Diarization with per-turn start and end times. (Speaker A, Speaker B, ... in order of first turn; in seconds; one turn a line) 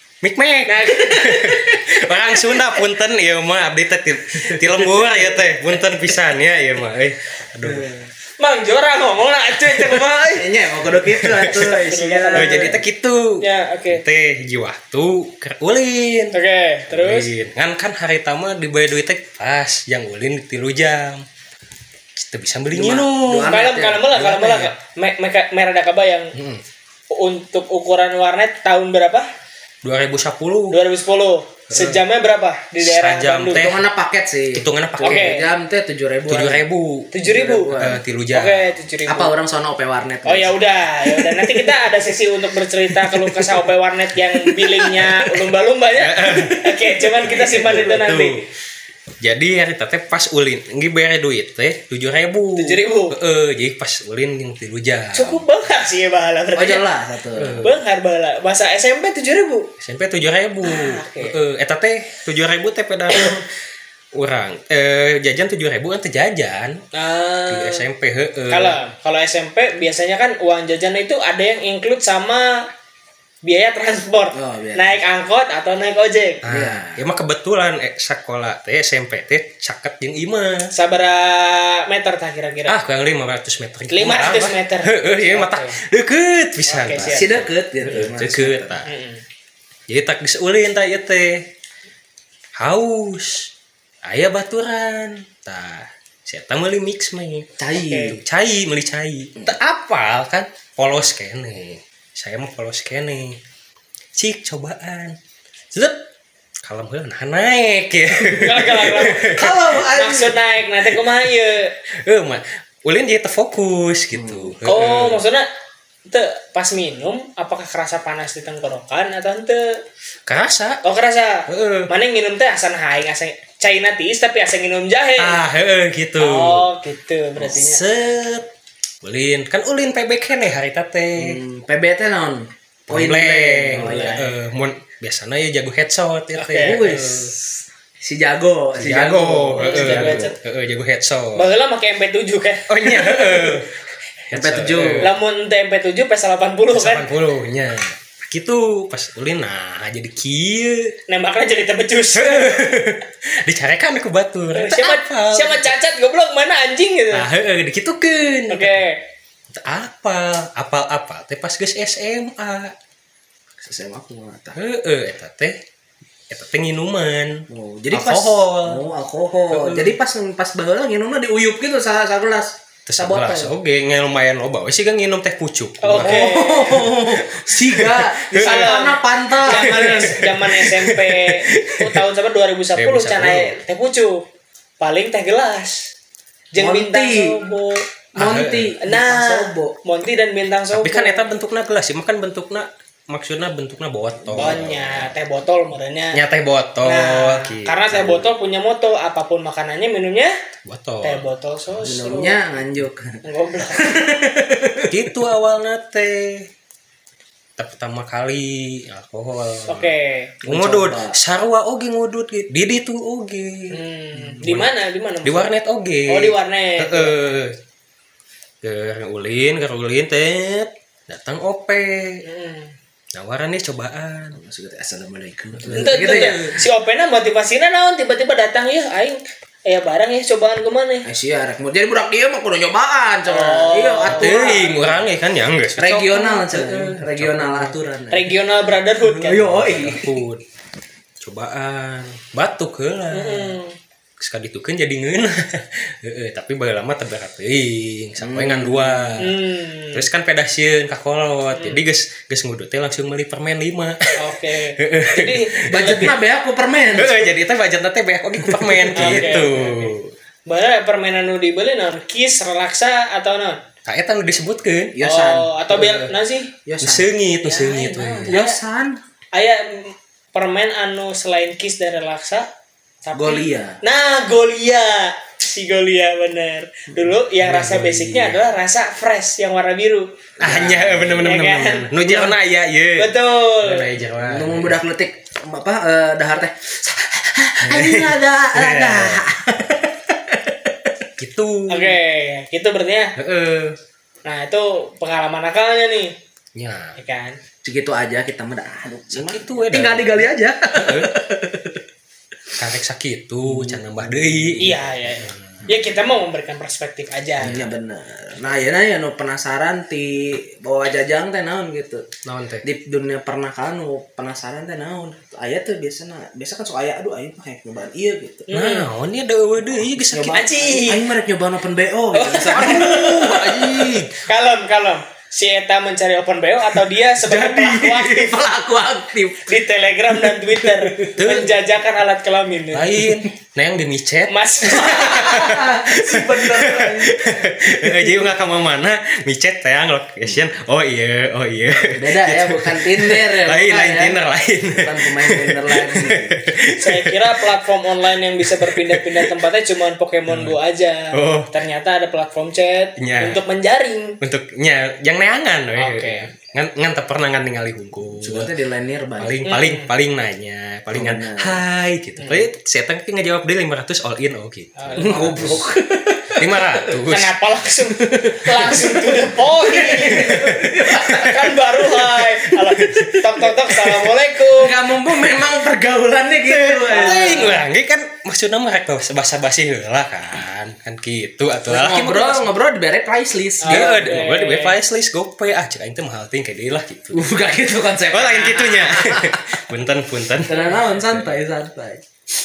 Speaker A: 0.2-7.9
Speaker B: 0.7-2.8
Speaker C: 7.6-8.1
Speaker B: 8.4-10.5
Speaker C: 10.2-12.8
Speaker A: 11.1-11.8
Speaker B: 11.5-12.8
Speaker A: 12.3-16.4
Speaker B: 13.4-14.0
Speaker B: 16.3-17.3
Speaker A: 16.9-21.2
Speaker A: 22.2-23.5
Speaker C: 22.7-24.3
Speaker B: 23.4-26.3
Speaker A: 24.2-24.7
Speaker A: 26.4-26.6
Speaker B: 27.1-29.3
Speaker A: 29.8-30.8
Speaker B: 30.7-33.7
Speaker A: 31.7-32.0
Speaker A: 32.8-33.8
Speaker C: 33.5-36.6
Speaker A: 34.5-35.4
Speaker B: 35.0-35.5
Speaker A: 36.3-37.1
Speaker B: 37.1-37.7
Speaker C: 37.2-38.0
Speaker A: 37.7-38.8
Speaker B: 38.3-39.3
Speaker C: 39.1-40.6
Speaker B: 40.2-48.4
Speaker A: 46.0-48.4
Speaker A: 49.2-55.4
Speaker B: 52.6-53.1
Speaker B: 55.1-56.8
Speaker C: 56.5-57.6
Speaker A: 57.4-57.8
Speaker B: 57.6-59.7
Speaker A: 59.8-63.5
Speaker B: 60.6-61.4
Speaker A: 64.1-66.8
Speaker B: 66.9-67.8
Speaker A: 67.5-68.8
Speaker B: 68.5-72.7
Speaker B: 73.4-76.4
Speaker C: 74.3-75.0
Speaker A: 76.4-80.7
Speaker C: 76.5-77.0
Speaker B: 80.7-82.8
Speaker A: 82.7-88.9
Speaker B: 83.9-85.8
Speaker B: 86.7-87.4
Speaker C: 87.0-88.8
Speaker B: 88.8-89.2
Speaker A: 89.9-91.5
Speaker A: 92.6-93.5
Speaker A: 94.0-103.4
Speaker C: 97.6-98.2
Speaker B: 97.8-98.2
Speaker A: 104.2-105.2
Speaker A: 105.7-106.0
Speaker A: 106.7-109.9
Speaker B: 108.3-111.8
Speaker C: 109.2-110.4
Speaker A: 111.9-115.2
Speaker C: 114.1-114.5
Speaker B: 114.6-115.5
Speaker B: 116.1-119.8
Speaker A: 120.3-120.8
Speaker B: 120.8-125.4
Speaker A: 121.5-121.9
Speaker A: 125.2-126.7
Speaker B: 126.2-127.8
Speaker A: 127.4-128.5
Speaker A: 129.0-131.4
Speaker C: 131.2-134.3
Speaker A: 132.9-137.3
Speaker B: 133.7-134.3
Speaker B: 136.4-137.0
Speaker C: 136.6-137.4
Speaker C: 138.0-140.3
Speaker A: 138.8-141.5
Speaker B: 139.6-140.4
Speaker B: 141.3-143.5
Speaker A: 142.7-143.7
Speaker A: 144.3-145.1
Speaker C: 144.3-145.1
Speaker B: 145.0-147.1
Speaker A: 146.7-150.9
Speaker B: 151.1-152.7
Speaker A: 152.2-155.8
Speaker B: 154.5-157.3
Speaker A: 157.1-158.8
Speaker B: 158.5-159.0
Speaker A: 159.5-162.7
Speaker C: 163.6-164.6
Speaker A: 164.6-165.6
Speaker A: 166.3-168.8
Speaker C: 167.5-173.5
Speaker A: 169.5-170.0
Speaker A: 172.9-178.9
Speaker B: 175.8-176.9
Speaker C: 176.0-180.2
Speaker B: 178.3-184.2
Speaker A: 179.4-182.1
Speaker A: 182.8-183.6
Speaker B: 184.8-185.9
Speaker B: 186.5-187.8
Speaker C: 186.6-187.4
Speaker C: 188.2-189.8
Speaker A: 188.2-188.7
Speaker B: 188.8-191.2
Speaker A: 190.7-195.1
Speaker C: 194.3-194.7
Speaker B: 194.3-196.2
Speaker A: 196.1-198.3
Speaker B: 196.8-200.3
Speaker A: 200.7-202.0
Speaker B: 201.0-202.4
Speaker C: 201.8-203.2
Speaker B: 203.2-204.1
Speaker C: 203.7-205.2
Speaker A: 204.8-206.5
Speaker A: 207.6-209.9
Speaker B: 209.7-210.3
Speaker C: 210.4-211.2
Speaker A: 210.5-214.7
Speaker B: 213.7-215.5
Speaker A: 215.2-217.5
Speaker B: 216.1-217.2
Speaker A: 218.6-222.2
Speaker B: 222.2-222.7
Speaker A: 223.1-224.4
Speaker C: 224.3-226.6
Speaker A: 225.6-226.3
Speaker B: 225.7-231.1
Speaker C: 231.0-234.8
Speaker B: 233.3-234.9
Speaker A: 234.1-237.8
Speaker C: 235.8-238.3
Speaker B: 235.8-236.6
Speaker B: 238.1-239.6
Speaker C: 239.0-240.2
Speaker A: 239.4-240.4
Speaker A: 241.2-243.6
Speaker B: 243.1-243.8
Speaker A: 244.2-249.4
Speaker C: 248.2-249.3
Speaker B: 249.2-250.1
Speaker A: 249.9-256.2
Speaker B: 251.5-251.8
Speaker B: 254.2-256.1
Speaker C: 255.7-257.4
Speaker A: 256.9-260.1
Speaker C: 258.4-259.5
Speaker B: 259.0-259.9
Speaker B: 260.5-263.6
Speaker A: 263.9-265.0
Speaker C: 264.9-265.6
Speaker B: 265.0-266.5
Speaker A: 265.7-266.1
Speaker C: 266.6-267.1
Speaker A: 266.8-268.4
Speaker B: 267.4-268.6
Speaker C: 268.3-269.0
Speaker B: 269.3-272.5
Speaker B: 273.1-280.1
Speaker C: 273.1-273.8
Speaker A: 277.4-278.6
Speaker C: 280.4-281.3
Speaker A: 280.4-284.8
Speaker B: 281.2-281.9
Speaker C: 282.0-282.4
Speaker B: 283.0-283.9
Speaker C: 284.2-290.9
Speaker A: 287.6-289.3
Speaker A: 291.2-292.0
Speaker B: 291.7-293.1
Speaker A: 293.2-293.8
Speaker B: 294.2-296.1
Speaker A: 296.6-297.0
Speaker B: 297.0-297.4
Speaker C: 297.6-301.8
Speaker A: 299.1-301.1
Speaker A: 302.6-305.7
Speaker C: 303.5-304.7
Speaker B: 304.6-307.6
Speaker C: 307.4-312.1
Speaker A: 312.2-312.6
Speaker C: 312.6-318.5
Speaker B: 318.5-318.9
Speaker A: 318.5-320.5
Speaker C: 319.9-324.1
Speaker B: 320.3-321.0
Speaker B: 322.1-323.1
Speaker A: 322.5-324.1
Speaker B: 324.2-328.4
Speaker C: 327.2-329.6
Speaker B: 329.5-333.1
Speaker C: 330.2-331.2
Speaker A: 331.2-331.6
Speaker A: 332.7-347.5
Speaker B: 334.3-335.4
Speaker C: 334.6-338.4
Speaker C: 341.8-346.5
Speaker B: 346.8-354.2
Speaker A: 348.4-349.3
Speaker A: 350.3-350.6
Speaker A: 351.1-351.5
Speaker A: 353.0-353.4
Speaker A: 354.2-358.5
Speaker B: 355.8-356.3
Speaker C: 358.2-359.5
Speaker A: 359.2-365.7
Speaker B: 359.4-359.9
Speaker C: 360.9-361.6
Speaker B: 362.2-362.5
Speaker B: 364.8-365.6
Speaker C: 365.0-367.0
Speaker A: 366.3-367.4
Speaker B: 367.1-374.8
Speaker C: 368.0-371.4
Speaker A: 369.9-371.4
Speaker A: 372.8-373.2
Speaker C: 374.5-377.6
Speaker A: 376.5-382.5
Speaker B: 376.9-377.6
Speaker C: 381.7-384.2
Speaker B: 383.6-384.8
Speaker A: 383.7-387.4
Speaker C: 387.1-389.6
Speaker A: 388.1-391.3
Speaker C: 390.5-392.0
Speaker B: 390.5-390.8